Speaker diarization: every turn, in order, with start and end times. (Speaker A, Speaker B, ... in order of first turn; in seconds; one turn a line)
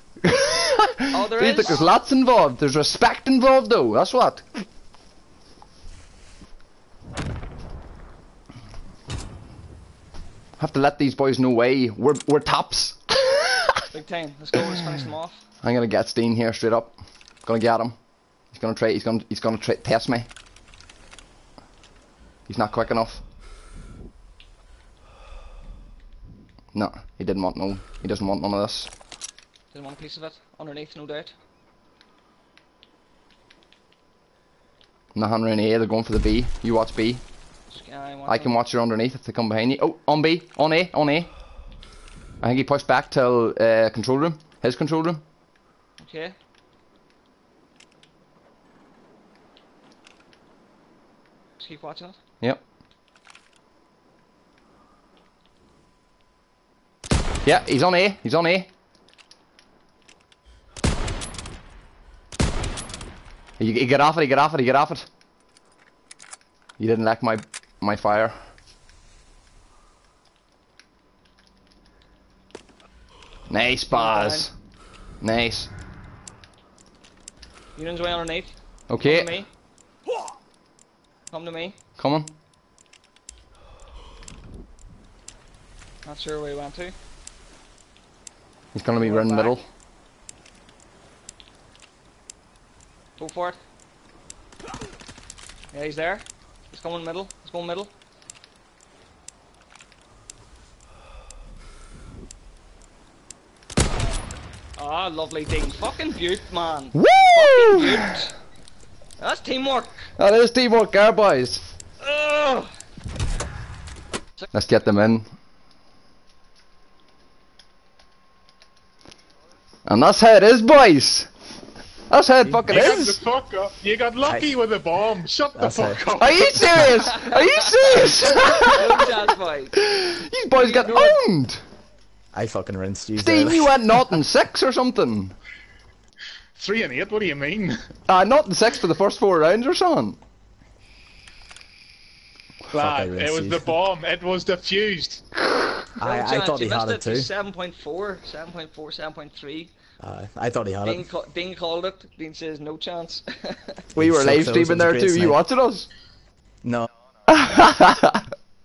Speaker A: 0.2-4.6
Speaker B: 1.1-1.9
Speaker A: 10.6-13.9
Speaker B: 13.9-15.4
Speaker A: 15.6-17.9
Speaker A: 18.5-20.3
Speaker A: 22.5-23.2
Speaker A: 26.7-28.9
Speaker B: 29.7-31.3
Speaker A: 35.1-37.2
Speaker B: 37.7-38.6
Speaker A: 38.3-41.3
Speaker A: 42.4-45.2
Speaker B: 46.0-46.4
Speaker B: 51.6-52.2
Speaker A: 57.4-58.7
Speaker A: 63.6-65.0
Speaker A: 66.8-68.3
Speaker A: 73.5-74.5
Speaker B: 73.9-74.5
Speaker A: 75.2-75.7
Speaker B: 77.8-79.5
Speaker A: 78.9-79.4
Speaker B: 81.3-81.8
Speaker A: 82.0-82.3
Speaker B: 86.0-86.9
Speaker A: 88.7-89.7
Speaker B: 89.0-89.6
Speaker B: 93.2-93.6
Speaker B: 95.7-97.9
Speaker B: 104.8-108.3
Speaker A: 106.9-108.2
Speaker B: 109.2-110.1
Speaker A: 110.2-111.6
Speaker B: 112.0-112.7
Speaker A: 114.5-115.2
Speaker A: 119.8-121.3
Speaker A: 122.1-123.2
Speaker C: 122.7-126.7
Speaker D: 124.2-124.5
Speaker D: 125.5-126.0
Speaker A: 126.2-129.2
Speaker B: 126.9-129.8
Speaker A: 129.7-131.6
Speaker B: 130.5-131.2
Speaker D: 132.3-133.7
Speaker A: 133.2-135.3
Speaker C: 136.6-137.8
Speaker A: 138.1-140.2
Speaker C: 142.7-145.2
Speaker D: 142.8-143.7
Speaker A: 145.5-145.8
Speaker D: 146.0-147.3
Speaker B: 146.0-149.7
Speaker D: 150.0-151.0
Speaker B: 150.8-153.8
Speaker D: 153.9-155.4
Speaker A: 153.9-155.9
Speaker A: 157.3-158.2